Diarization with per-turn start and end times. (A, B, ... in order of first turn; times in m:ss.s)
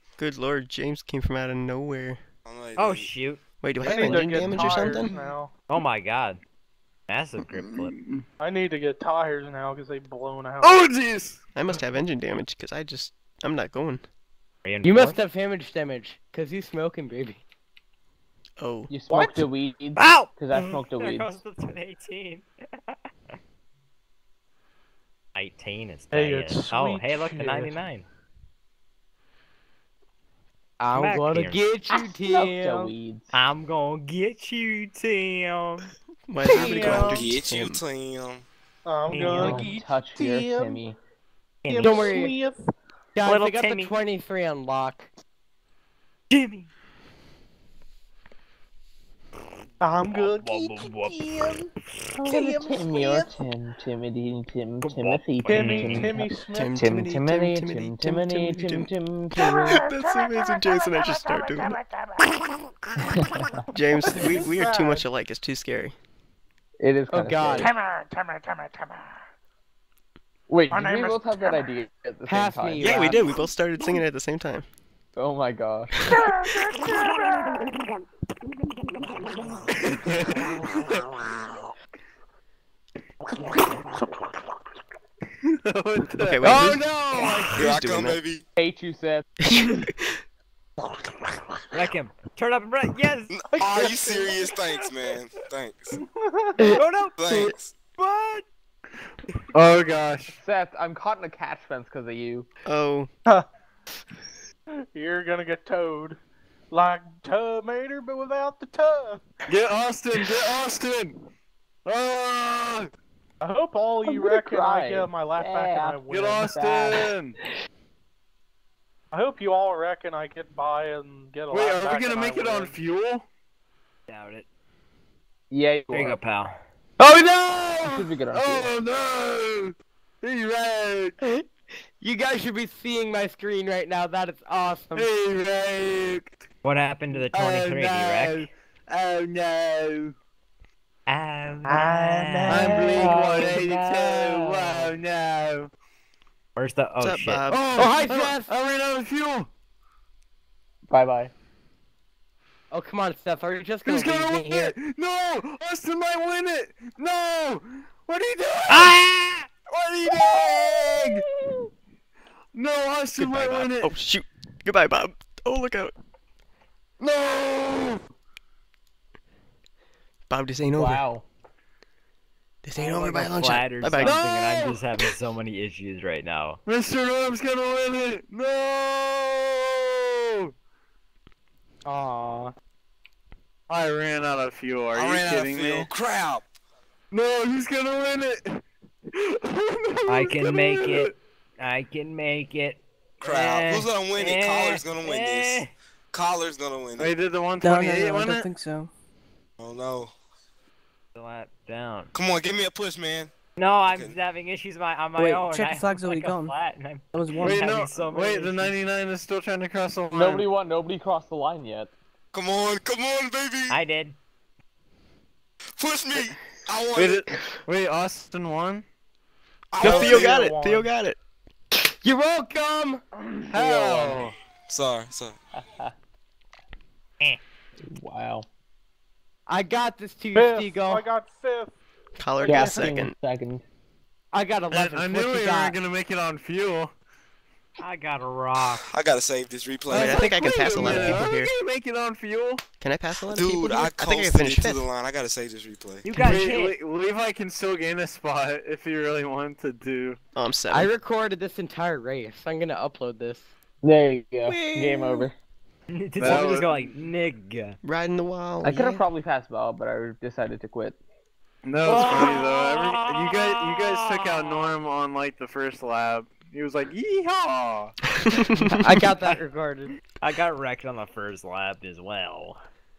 0:00.2-0:02.2 A
0:02.4-0:03.1 B
0:02.8-0:03.4 C
0:03.6-0:05.1 A
0:03.8-0:05.5 D
0:05.7-0:06.4 C
0:07.1-0:07.9 C
0:07.4-0:08.2 E
0:08.4-0:10.9 D
0:10.6-0:11.4 E
0:11.5-0:14.0 A
0:14.6-0:15.2 C
0:14.8-0:17.4 F
0:18.6-0:18.9 A
0:18.9-0:21.4 G
0:19.1-0:19.4 D
0:20.0-0:23.0 C
0:25.3-0:28.1 C
0:26.1-0:27.8 D
0:30.8-0:32.9 F
0:30.9-0:31.6 C
0:31.9-0:33.3 G
0:33.3-0:35.9 C
0:36.3-0:37.8 A
0:36.4-0:37.2 F
0:36.5-0:37.2 D
0:37.1-0:38.4 B
0:38.8-0:40.8 D
0:39.1-0:39.7 C
0:39.3-0:41.0 G
0:41.6-0:42.2 C
0:41.6-0:42.6 D
0:41.8-0:42.4 F
0:43.2-0:45.1 F
0:43.2-0:43.9 C
0:46.3-0:46.7 C
0:49.8-0:53.4 D
0:50.1-0:51.6 C
0:52.2-0:59.8 G
0:54.8-0:56.1 C
0:55.5-0:56.9 D
0:56.5-1:01.8 A
1:00.7-1:02.2 D
1:03.0-1:03.6 G
1:03.7-1:06.0 A
1:04.0-1:05.1 D
1:06.8-1:07.7 G
1:07.1-1:07.7 F
1:07.6-1:09.2 D
1:10.5-1:13.1 G
1:10.7-1:11.7 D
1:12.3-1:13.3 F
1:12.8-1:14.6 A
1:15.2-1:16.2 G
1:16.9-1:17.5 E
1:19.9-1:21.0 E
1:25.4-1:27.5 E
1:26.2-1:28.2 A
1:26.4-1:27.5 F
1:27.5-1:28.4 B
1:28.6-1:29.3 G
1:29.4-1:30.2 A
1:31.7-1:33.3 C
1:33.3-1:36.0 B
1:33.5-1:35.4 D
1:35.9-1:36.8 D
1:36.6-1:37.5 F
1:36.7-1:37.2 C
1:37.2-1:37.7 B
1:38.0-1:38.4 C
1:39.5-1:40.4 E
1:40.4-1:42.5 G
1:42.6-1:43.1 A
1:44.9-1:46.2 D
1:46.7-1:49.2 D
1:49.5-1:51.2 E
1:51.8-1:52.9 E
1:53.4-1:56.6 D
1:54.0-1:57.0 G
1:56.1-1:57.4 E
1:59.1-2:02.7 D
2:01.5-2:03.2 E
2:04.1-2:04.4 C
2:05.5-2:06.2 G
2:05.9-2:06.5 C
2:07.0-2:08.1 F
2:07.8-2:08.7 G
2:08.3-2:11.1 E
2:11.2-2:15.1 F
2:14.9-2:16.4 E
2:16.6-2:18.5 C
2:17.2-2:20.1 E
2:21.1-2:22.9 C
2:21.6-2:23.5 F
2:22.5-2:25.7 E
2:22.9-2:24.9 G
2:26.5-2:27.4 C
2:27.0-2:28.1 A
2:27.5-2:29.5 E
2:27.7-2:28.5 F
2:30.9-2:31.3 G
2:32.7-2:34.7 F
2:33.8-2:39.0 E
2:38.7-2:39.5 C
2:39.6-2:41.2 E
2:42.5-2:43.9 E
2:43.2-2:45.9 A
2:47.0-2:48.0 E
2:50.3-2:51.0 A
2:50.7-2:51.2 G
2:52.6-2:54.2 A
2:52.8-2:56.6 C
2:54.0-2:54.8 E
2:56.6-3:00.5 E
3:01.8-3:02.5 F
3:03.7-3:05.9 E
3:04.9-3:06.4 B
3:07.1-3:11.1 E
3:10.1-3:15.7 C
3:13.2-3:17.1 B
3:17.0-3:18.5 E
3:17.6-3:18.9 H
3:19.6-3:20.1 B
3:21.1-3:22.1 C
3:22.1-3:23.3 B
3:23.6-3:28.8 C
3:23.9-3:24.2 B
3:25.2-3:26.6 H
3:27.1-3:27.6 H
3:27.4-3:30.5 E
3:30.1-3:31.9 G
3:32.3-3:33.8 B
3:33.7-3:34.2 C
3:35.8-3:37.2 B
3:36.9-3:38.8 E
3:39.7-3:40.4 B
3:39.8-3:41.2 A
3:39.8-3:40.3 F
3:39.8-3:40.9 D
3:41.9-3:43.0 F
3:43.5-3:44.3 E
3:44.7-3:45.4 B
3:47.9-3:48.4 G
3:49.5-3:51.0 F
3:50.3-3:51.8 D
3:52.2-3:53.2 A
3:52.4-3:52.9 D
3:52.4-3:53.6 G
3:54.3-3:55.8 F
3:54.7-3:56.9 E
3:57.8-3:58.9 C
3:58.9-4:00.4 B
3:59.9-4:02.6 E
3:59.9-4:01.5 A
4:02.8-4:04.9 A
4:03.2-4:06.1 B
4:06.0-4:06.8 C
4:06.1-4:10.2 E
4:10.3-4:10.9 A
4:10.7-4:13.5 F
4:13.8-4:15.3 G
4:14.4-4:15.3 A
4:15.9-4:17.8 C
4:16.2-4:16.7 E
4:17.8-4:19.0 A
4:18.6-4:21.0 G
4:21.6-4:28.0 E
4:21.8-4:24.7 C
4:28.4-4:28.9 A
4:28.5-4:29.4 C
4:28.8-4:29.9 F
4:30.1-4:32.6 C